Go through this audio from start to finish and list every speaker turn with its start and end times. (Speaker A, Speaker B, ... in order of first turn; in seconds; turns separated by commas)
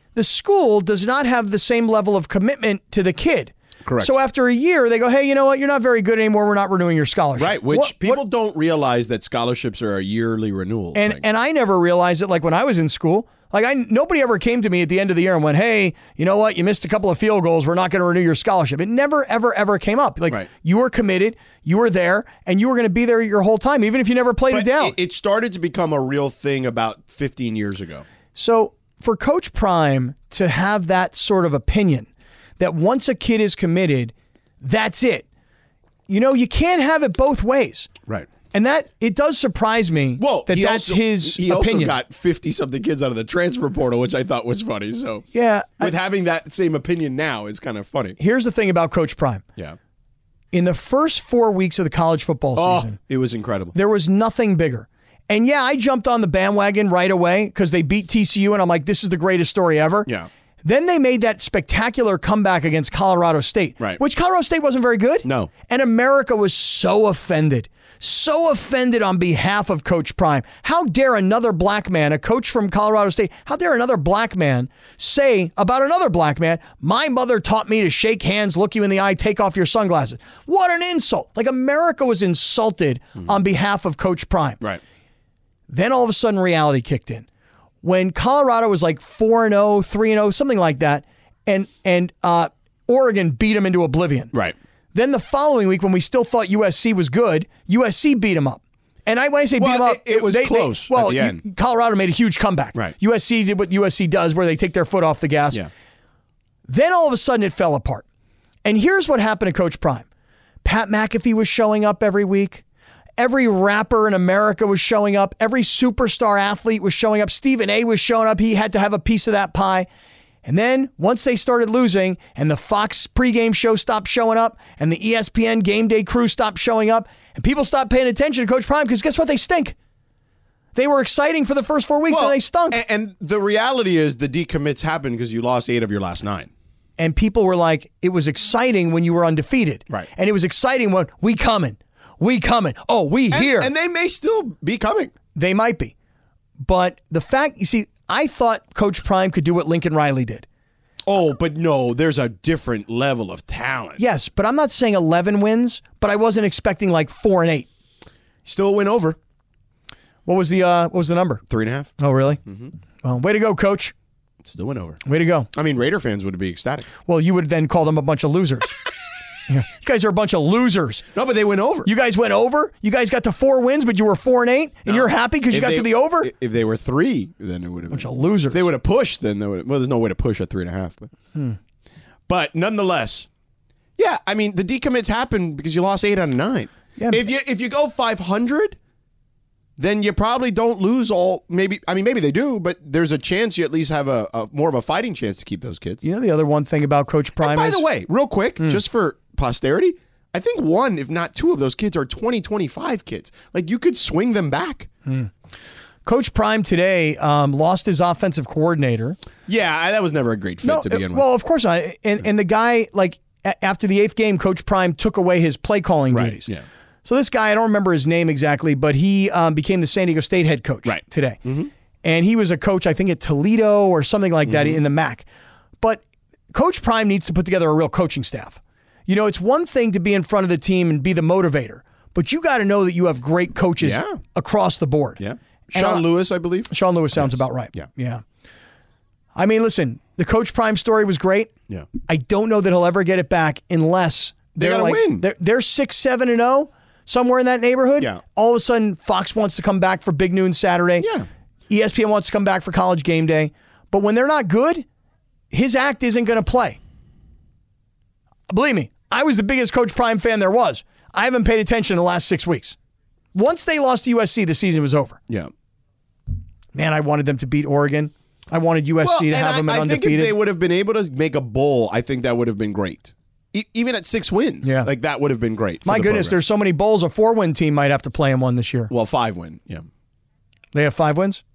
Speaker A: 0.2-8.2, Speaker B: 3.9-4.1, Speaker B: 7.4-11.2, Speaker A: 10.9-24.9, Speaker B: 24.5-28.1, Speaker A: 28.4-35.3, Speaker A: 36.1-37.9, Speaker A: 38.5-42.0, Speaker B: 40.2-45.3, Speaker A: 45.3-46.0, Speaker B: 45.8-48.2, Speaker A: 48.2-49.4, Speaker A: 50.5-53.0, Speaker B: 52.6-53.8, Speaker A: 53.7-60.1, Speaker A: 60.6-84.6, Speaker B: 65.2-65.5, Speaker A: 85.7-87.3, Speaker A: 87.8-94.3, Speaker A: 94.9-105.6, Speaker B: 99.6-101.4, Speaker A: 106.7-108.0, Speaker A: 108.6-110.1, Speaker A: 110.6-112.6, Speaker A: 113.2-119.9, Speaker A: 120.5-129.8, Speaker A: 130.8-132.8, Speaker B: 132.1-136.5, Speaker A: 137.0-143.7, Speaker B: 143.3-145.1, Speaker A: 145.3-145.9, Speaker A: 146.6-150.4, Speaker B: 151.1-154.0, Speaker A: 154.0-157.7, Speaker B: 158.4-159.2, Speaker A: 160.3-161.4, Speaker B: 161.5-161.9, Speaker A: 162.0-162.4, Speaker B: 162.4-162.7, Speaker A: 163.0-163.9, Speaker B: 164.4-165.0, Speaker A: 165.1-165.5, Speaker B: 165.5-166.9, Speaker A: 167.1-168.8, Speaker A: 169.5-171.1, Speaker B: 171.1-171.9, Speaker A: 171.8-176.3, Speaker B: 174.9-181.1, Speaker A: 177.9-178.7, Speaker B: 182.3-183.3, Speaker B: 184.0-188.8, Speaker A: 187.0-187.2, Speaker B: 189.8-196.0, Speaker A: 196.0-197.8, Speaker B: 197.4-204.9, Speaker A: 206.1-209.2, Speaker B: 209.5-211.3, Speaker A: 210.6-216.5, Speaker B: 216.1-216.6, Speaker A: 217.1-221.4, Speaker B: 220.8-221.7, Speaker A: 222.0-225.3, Speaker B: 224.5-224.8, Speaker A: 226.5-235.2, Speaker B: 233.8-234.2, Speaker B: 235.2-237.9, Speaker A: 235.7-236.1, Speaker A: 236.7-238.2, Speaker A: 239.3-241.5, Speaker A: 242.1-251.1, Speaker B: 244.6-245.3, Speaker B: 251.0-251.3, Speaker A: 251.7-254.8, Speaker A: 255.5-256.8, Speaker A: 258.5-262.8, Speaker A: 263.4-265.2, Speaker A: 266.7-270.4, Speaker B: 269.0-276.3, Speaker A: 274.6-274.9, Speaker A: 275.9-278.9, Speaker B: 278.9-279.9, Speaker A: 280.7-281.4